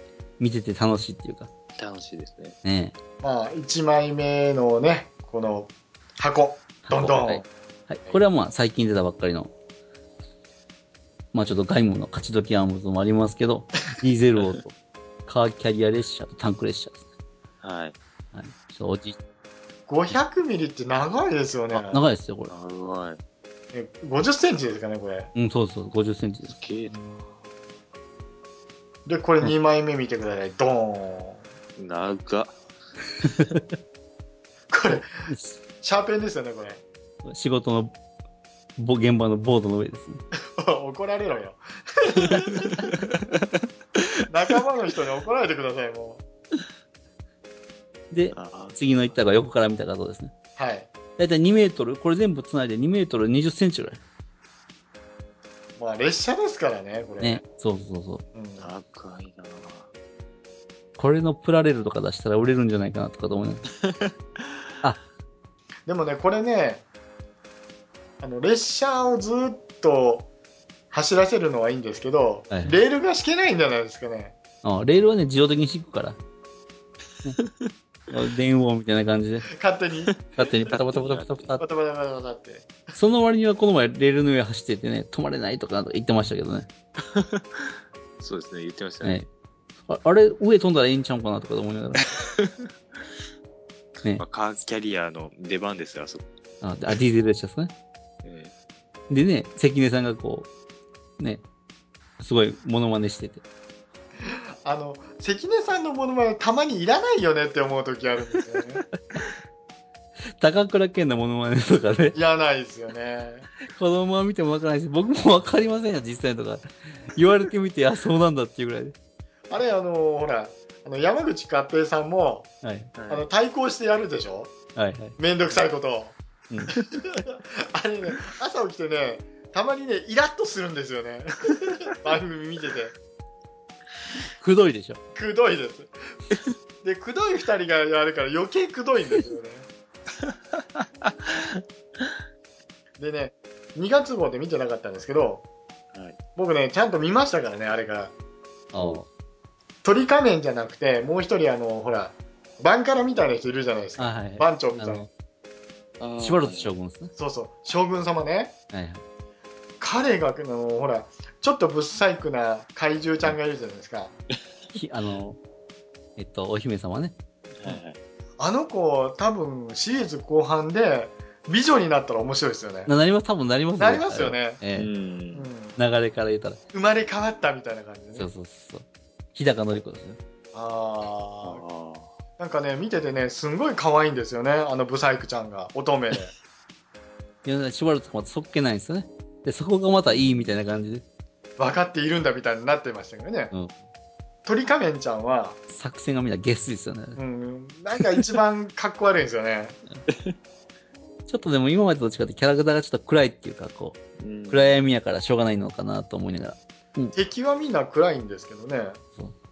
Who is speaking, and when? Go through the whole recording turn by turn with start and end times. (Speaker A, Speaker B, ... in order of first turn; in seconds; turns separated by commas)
Speaker A: 0.4-1.5, Speaker B: 1.8-2.6, Speaker A: 2.6-2.9, Speaker C: 3.2-7.5, Speaker A: 6.8-9.5, Speaker A: 11.3-14.7, Speaker A: 15.2-17.0, Speaker B: 17.6-17.9, Speaker A: 18.3-19.2, Speaker C: 19.9-22.0, Speaker A: 21.7-22.5, Speaker B: 22.5-23.2, Speaker C: 23.7-25.3, Speaker A: 25.3-26.5, Speaker B: 26.5-26.9, Speaker C: 26.9-27.4, Speaker C: 29.0-31.4, Speaker B: 31.8-32.5, Speaker C: 34.7-35.1, Speaker A: 35.2-35.6, Speaker C: 35.8-36.8, Speaker A: 37.2-37.9, Speaker A: 38.8-40.2, Speaker C: 40.6-42.9, Speaker C: 44.3-46.2, Speaker A: 48.1-50.3, Speaker B: 48.3-49.0, Speaker C: 50.6-50.9, Speaker A: 51.2-54.0, Speaker C: 55.8-57.4, Speaker A: 57.2-58.2, Speaker C: 58.3-58.7, Speaker B: 58.6-59.9, Speaker A: 61.0-63.6, Speaker B: 63.8-64.1, Speaker C: 65.8-66.8, Speaker C: 68.2-70.3, Speaker C: 70.9-74.3, Speaker A: 72.5-72.8, Speaker A: 74.6-76.2, Speaker B: 77.4-77.7, Speaker A: 78.1-79.5, Speaker C: 79.5-80.1, Speaker A: 80.3-81.6, Speaker B: 80.7-81.5, Speaker C: 81.6-82.7, Speaker A: 82.9-86.7, Speaker B: 87.1-89.2, Speaker A: 89.9-92.1, Speaker B: 92.1-92.7, Speaker B: 94.2-96.3, Speaker A: 96.6-97.7, Speaker B: 98.2-98.5, Speaker A: 99.1-100.5, Speaker A: 102.2-103.4, Speaker C: 104.2-108.8, Speaker A: 110.4-112.2, Speaker C: 112.1-113.5, Speaker A: 113.7-118.9, Speaker C: 119.5-122.5, Speaker A: 122.6-122.9, Speaker B: 123.0-123.2, Speaker C: 123.1-124.5, Speaker A: 124.7-125.2, Speaker C: 125.2-126.2, Speaker C: 126.7-132.9, Speaker A: 134.4-135.0, Speaker C: 135.1-135.9, Speaker C: 136.8-139.7, Speaker B: 141.0-141.6, Speaker C: 143.0-145.4, Speaker C: 146.3-148.1, Speaker A: 148.7-149.1, Speaker B: 148.7-149.0, Speaker C: 149.8-155.1, Speaker A: 154.0-155.1, Speaker B: 156.0-156.7, Speaker A: 156.2-157.1, Speaker C: 157.1-158.5, Speaker A: 158.7-159.0, Speaker C: 159.8-164.1, Speaker A: 164.7-165.4, Speaker A: 166.2-167.1, Speaker B: 167.6-168.0, Speaker C: 168.4-172.9, Speaker A: 172.9-174.9, Speaker C: 173.8-174.6, Speaker B: 174.7-175.5, Speaker C: 175.3-175.8, Speaker A: 175.8-176.6, Speaker C: 176.7-178.3, Speaker A: 178.1-180.2, Speaker C: 180.5-181.6, Speaker B: 181.4-182.1, Speaker C: 182.4-186.3, Speaker A: 187.4-191.0, Speaker B: 190.1-190.5, Speaker C: 191.6-193.5, Speaker C: 194.4-195.6, Speaker A: 195.7-197.2, Speaker C: 197.2-199.8, Speaker A: 201.3-207.1, Speaker B: 204.2-204.8, Speaker C: 207.1-209.0